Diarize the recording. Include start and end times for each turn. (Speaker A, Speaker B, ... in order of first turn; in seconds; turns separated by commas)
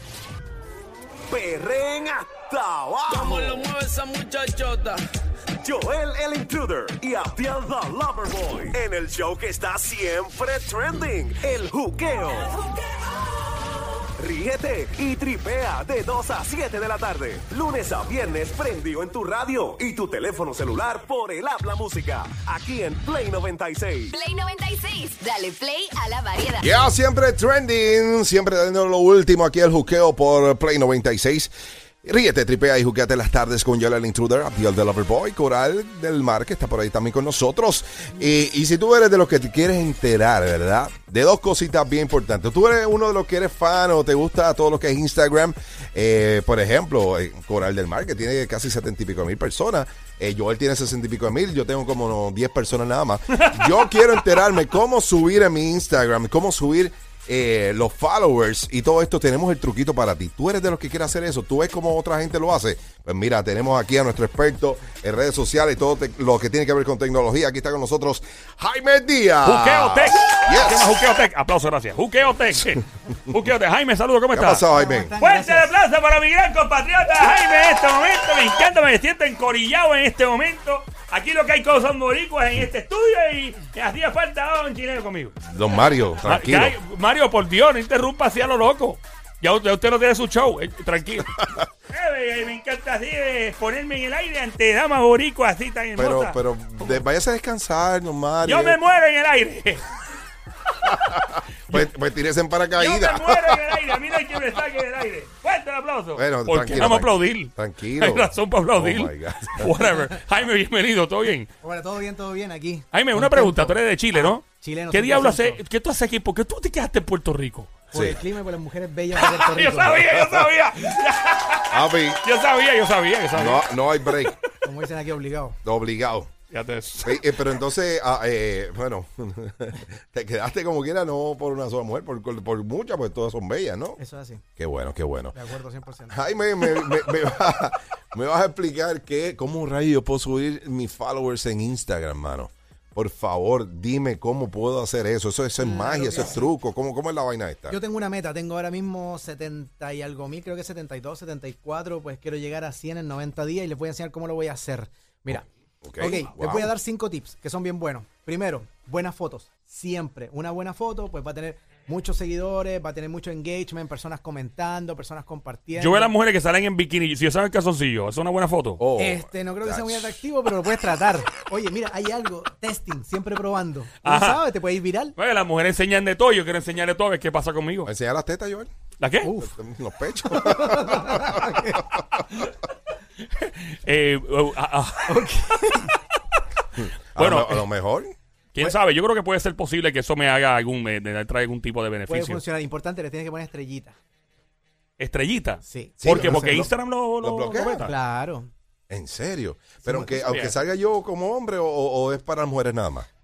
Speaker A: 1.3-3.7, Speaker B: 3.1-5.0, Speaker A: 5.6-12.6, Speaker A: 14.2-24.2, Speaker C: 24.1-26.7, Speaker D: 26.6-31.5, Speaker D: 32.0-71.0, Speaker E: 53.4-54.3, Speaker E: 69.4-74.6, Speaker D: 74.3-75.1, Speaker F: 74.7-75.7, Speaker E: 75.2-97.0, Speaker D: 85.5-86.8, Speaker D: 91.4-91.6, Speaker D: 96.0-98.8, Speaker E: 98.4-100.0, Speaker D: 100.8-103.8, Speaker E: 102.8-111.5, Speaker D: 106.2-109.8, Speaker F: 111.6-115.6, Speaker E: 112.9-117.7, Speaker F: 117.9-120.2, Speaker D: 117.9-118.2, Speaker E: 119.2-124.5, Speaker D: 121.7-122.2, Speaker D: 123.3-124.4, Speaker F: 124.6-125.6, Speaker D: 125.6-126.3, Speaker E: 126.5-127.5, Speaker D: 127.0-134.0, Speaker F: 134.0-134.4, Speaker D: 134.6-135.4, Speaker F: 135.3-136.2, Speaker D: 136.1-147.8, Speaker F: 145.6-146.4, Speaker F: 147.7-155.5, Speaker D: 155.3-156.7, Speaker F: 156.0-166.1, Speaker E: 165.8-168.8, Speaker D: 168.8-170.2, Speaker F: 169.0-175.2, Speaker E: 174.0-174.4, Speaker E: 175.2-177.9, Speaker D: 177.9-178.7, Speaker E: 179.0-179.3, Speaker F: 179.2-179.6, Speaker D: 179.4-181.8, Speaker F: 180.3-181.9, Speaker E: 183.2-185.3, Speaker F: 185.1-185.9, Speaker D: 186.8-188.1, Speaker E: 187.2-187.7, Speaker E: 188.6-192.4, Speaker F: 192.1-194.0, Speaker E: 195.0-197.9, Speaker F: 195.6-196.7, Speaker D: 196.0-197.9, Speaker F: 197.8-198.5, Speaker D: 198.9-203.1, Speaker F: 199.8-200.2, Speaker E: 200.2-200.6